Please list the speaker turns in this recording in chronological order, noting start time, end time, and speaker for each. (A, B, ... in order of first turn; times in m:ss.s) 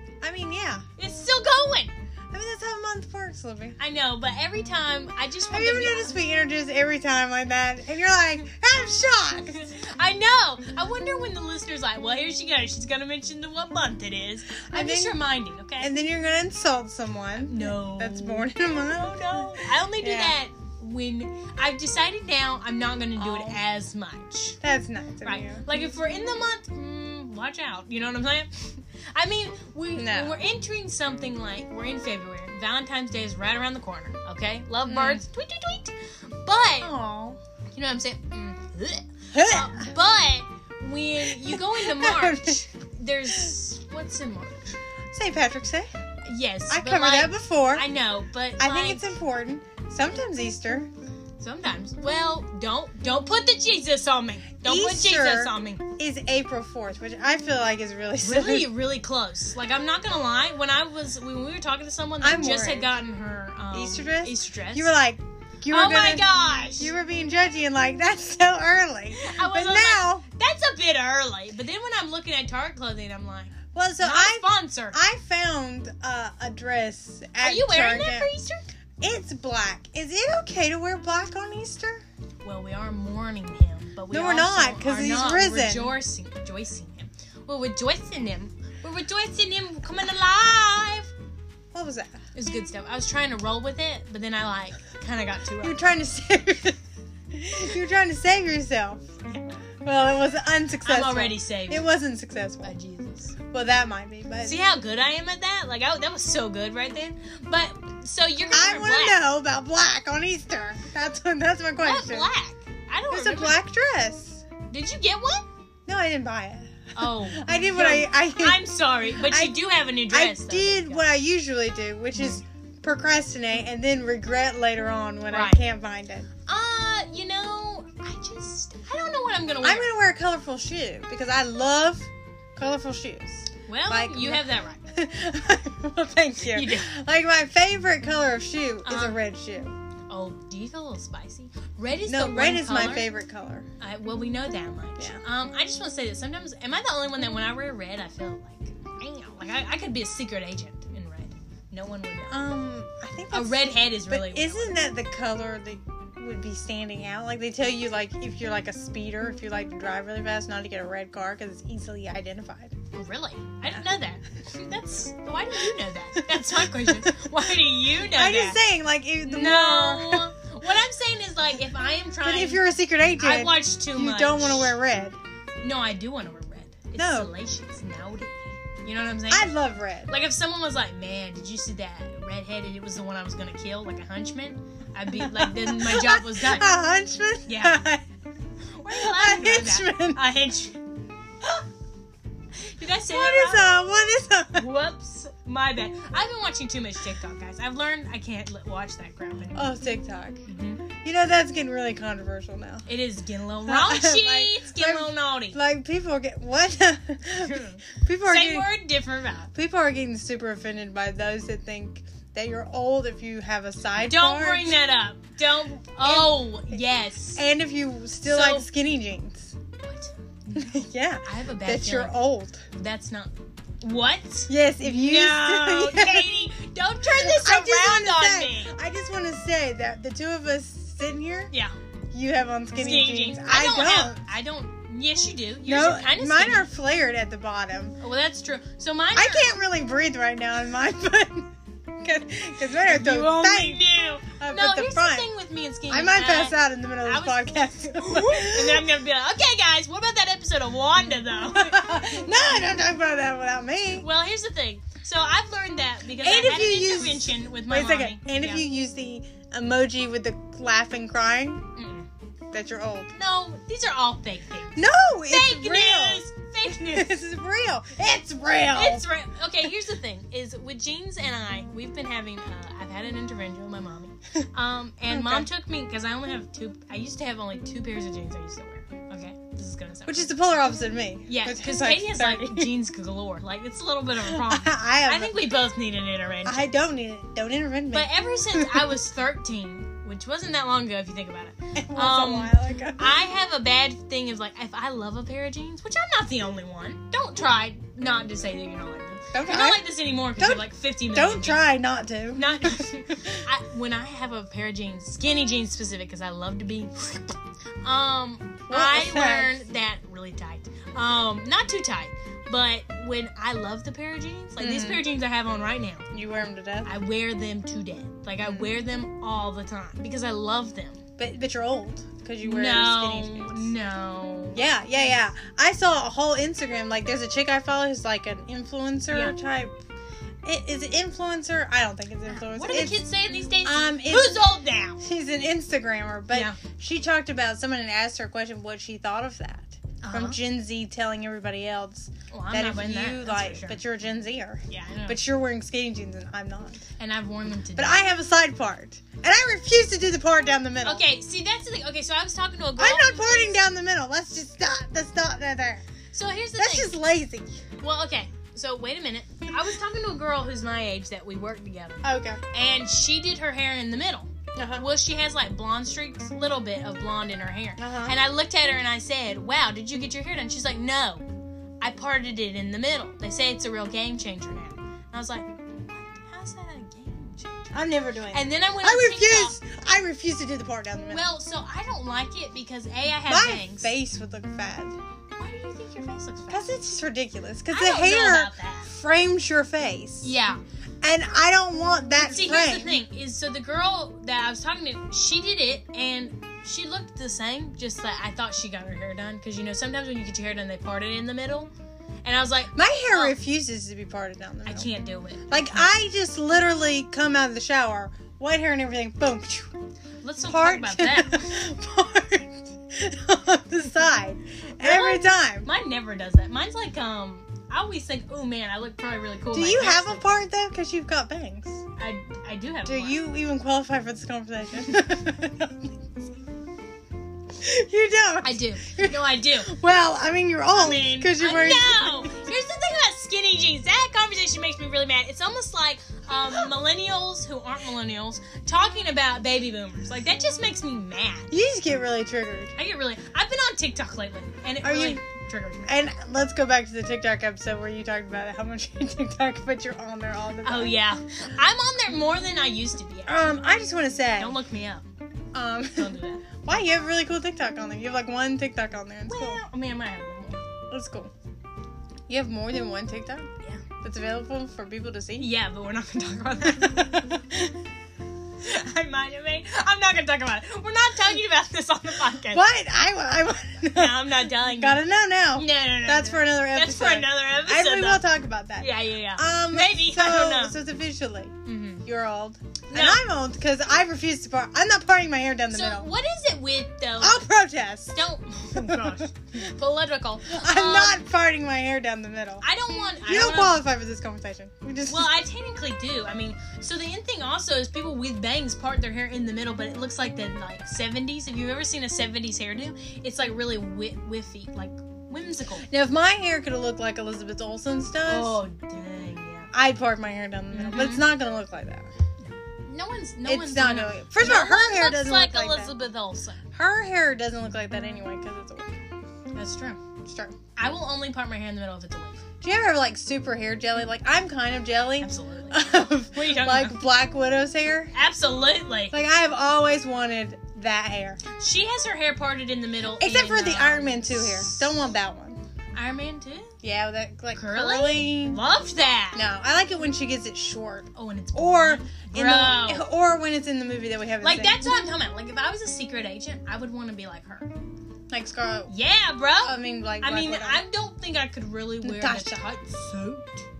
0:00.2-0:00.8 A
0:01.0-0:01.9 B
0:02.3-0:03.8 A
0:03.8-0:06.2 B
0:05.5-0:09.6 A
0:09.5-0:15.9 B
0:14.6-0:15.2 A
0:15.8-0:20.4 A
0:17.4-0:24.6 B
0:23.2-0:23.6 A
0:24.6-0:25.6 A
0:25.2-0:36.9 B
0:30.0-0:30.4 A
0:34.9-0:35.2 A
0:36.8-0:37.4 A
0:37.7-0:44.8 B
0:39.3-0:39.9 A
0:41.2-0:42.6 A
0:45.1-0:45.9 A
0:46.2-0:49.1 B
0:46.7-0:47.9 A
0:48.6-0:50.9 A
0:51.4-0:55.8 B
0:54.6-0:58.7 A
0:58.2-1:04.9 B
1:02.2-1:03.0 A
1:03.7-1:10.2 A
1:05.7-1:06.9 B
1:09.2-1:15.0 B
1:13.7-1:18.3 A
1:17.4-1:18.6 B
1:19.0-1:22.0 A
1:22.4-1:31.1 B
1:24.1-1:25.9 A
1:31.7-1:32.2 A
1:32.3-1:35.8 B
1:35.6-1:36.8 A
1:37.3-1:39.0 A
1:39.2-1:39.6 B
1:39.8-1:42.7 A
1:40.8-1:41.8 B
1:42.6-1:43.4 B
1:43.4-1:44.6 A
1:44.4-1:49.2 B
1:48.5-1:52.3 A
1:51.8-1:53.6 B
1:53.1-1:54.4 A
1:54.7-1:55.4 B
1:55.8-1:59.6 A
1:57.0-2:01.2 B
2:00.1-2:06.3 A
2:05.3-2:05.6 B
2:06.5-2:09.9 B
2:09.6-2:19.8 A
2:13.7-2:14.9 B
2:16.4-2:16.9 B
2:18.8-2:19.2 B
2:20.1-2:23.1 B
2:22.1-2:23.7 A
2:23.8-2:32.4 B
2:32.3-2:42.7 A
2:33.3-2:34.8 B
2:42.9-2:48.6 B
2:46.6-2:47.3 A
2:48.1-2:50.3 A
2:49.2-2:52.6 B
2:52.2-2:55.2 A
2:53.2-2:54.7 B
2:55.6-2:59.5 B
2:57.0-2:57.3 A
2:59.3-3:00.1 A
3:00.1-3:06.7 B
3:05.1-3:08.0 A
3:07.5-3:07.8 B
3:08.8-3:10.8 B
3:08.9-3:10.2 A
3:12.6-3:13.7 B
3:13.0-3:14.7 A
3:14.6-3:19.7 B
3:19.6-3:20.4 A
3:20.5-3:20.8 B
3:21.0-3:22.9 A
3:22.9-3:25.6 B
3:23.7-3:28.7 A
3:27.4-3:29.5 B
3:29.5-3:34.8 A
3:34.0-3:37.4 B
3:36.0-3:36.8 A
3:37.3-3:39.6 A
3:38.3-3:38.7 B
3:39.8-3:42.2 B
3:40.6-3:42.6 A
3:42.7-3:48.7 B
3:44.5-3:46.3 A
3:47.0-3:51.5 A
3:52.1-3:54.2 A
3:52.8-3:56.7 B
3:55.6-3:58.0 A
3:58.0-3:59.5 B
3:59.2-4:05.3 A
4:02.8-4:11.9 B
4:05.9-4:08.8 A
4:11.5-4:14.1 A
4:14.0-4:18.6 B
4:16.2-4:21.6 A
4:21.8-4:22.1 B
4:22.5-4:23.1 A
4:23.1-4:27.2 B
4:24.8-4:29.1 A
4:28.7-4:40.3 B
4:35.1-4:35.5 A
4:40.1-4:42.7 A
4:41.3-4:46.7 B
4:44.2-4:45.4 A
4:46.4-4:48.9 A
4:47.9-5:01.7 B
4:51.8-4:53.1 A
4:59.3-5:03.4 A
5:02.3-5:16.0 B
5:08.7-5:09.6 A
5:14.6-5:15.0 A
5:16.1-5:16.9 A
5:16.8-5:21.0 B
5:18.4-5:18.7 A
5:21.2-5:23.7 A
5:22.4-5:25.1 B
5:24.5-5:29.7 A
5:29.1-5:29.3 B
5:30.4-5:33.1 A
5:32.3-5:35.0 B
5:33.6-5:46.8 A
5:36.3-5:36.6 B
5:40.0-5:40.4 B
5:42.3-5:43.8 B
5:44.7-5:45.2 B
5:47.0-5:48.0 B
5:47.8-5:51.0 A
5:50.8-5:53.6 B
5:52.8-5:55.8 A
5:56.1-5:56.9 B
5:56.6-5:57.5 A
5:57.8-6:11.2 B
6:02.0-6:02.4 A
6:04.5-6:04.8 A
6:07.8-6:08.1 A
6:11.8-6:17.8 B
6:17.7-6:21.3 A
6:18.3-6:19.6 B
6:21.1-6:23.9 B
6:23.3-6:25.0 A
6:25.4-6:26.7 B
6:26.5-6:30.3 A
6:27.7-6:28.9 B
6:30.2-6:30.6 B
6:31.0-6:33.0 A
6:32.2-6:41.7 B
6:42.2-6:43.3 B
6:42.8-6:44.9 A
6:44.6-6:45.9 B
6:45.5-6:49.7 A
6:50.2-6:51.6 B
6:50.4-6:55.7 A
6:54.8-7:00.3 B
6:59.5-7:01.8 A
7:02.0-7:03.2 B
7:02.8-7:05.9 A
7:07.5-7:12.4 A
7:08.4-7:09.7 B
7:10.7-7:21.5 B
7:21.5-7:22.7 A
7:22.8-7:26.0 B
7:24.8-7:25.2 A
7:25.8-7:30.9 A
7:30.6-7:33.4 B
7:33.3-7:34.6 A
7:34.4-7:35.0 B
7:35.5-7:39.6 A
7:36.0-7:36.4 B
7:39.3-7:40.6 B
7:40.9-7:41.3 A
7:42.3-7:43.5 A
7:44.0-7:45.5 A
7:45.4-7:47.4 B
7:46.7-7:47.7 A
7:48.6-7:52.6 B
7:52.5-8:06.1 A
7:53.9-7:55.0 B
7:55.5-7:58.2 B
7:58.8-8:00.8 B
8:01.6-8:02.1 B
8:02.9-8:03.2 B
8:05.7-8:07.4 B
8:07.2-8:08.2 A
8:08.1-8:11.2 B
8:08.7-8:09.3 A
8:10.5-8:12.6 A
8:12.6-8:13.8 B
8:13.2-8:15.3 A
8:15.1-8:25.9 B
8:25.8-8:28.6 A
8:28.2-8:29.7 B
8:29.7-8:32.1 A
8:30.7-8:31.3 B
8:32.4-8:36.6 B
8:33.4-8:35.9 A
8:36.7-8:39.0 A
8:39.5-8:40.0 B
8:40.2-8:40.5 A
8:40.8-8:42.4 B
8:42.6-8:48.1 A
8:45.2-8:47.0 B
8:48.1-8:49.2 B
8:49.1-8:51.4 A
8:51.6-8:54.9 B
8:53.2-8:55.6 A
8:55.9-8:56.7 B
8:56.8-8:58.6 A
8:57.5-8:59.4 B
8:59.3-9:05.0 A
9:01.1-9:03.0 B
9:04.4-9:07.7 B
9:08.3-9:08.9 A
9:08.9-9:13.6 B
9:09.6-9:10.8 A
9:12.0-9:12.6 A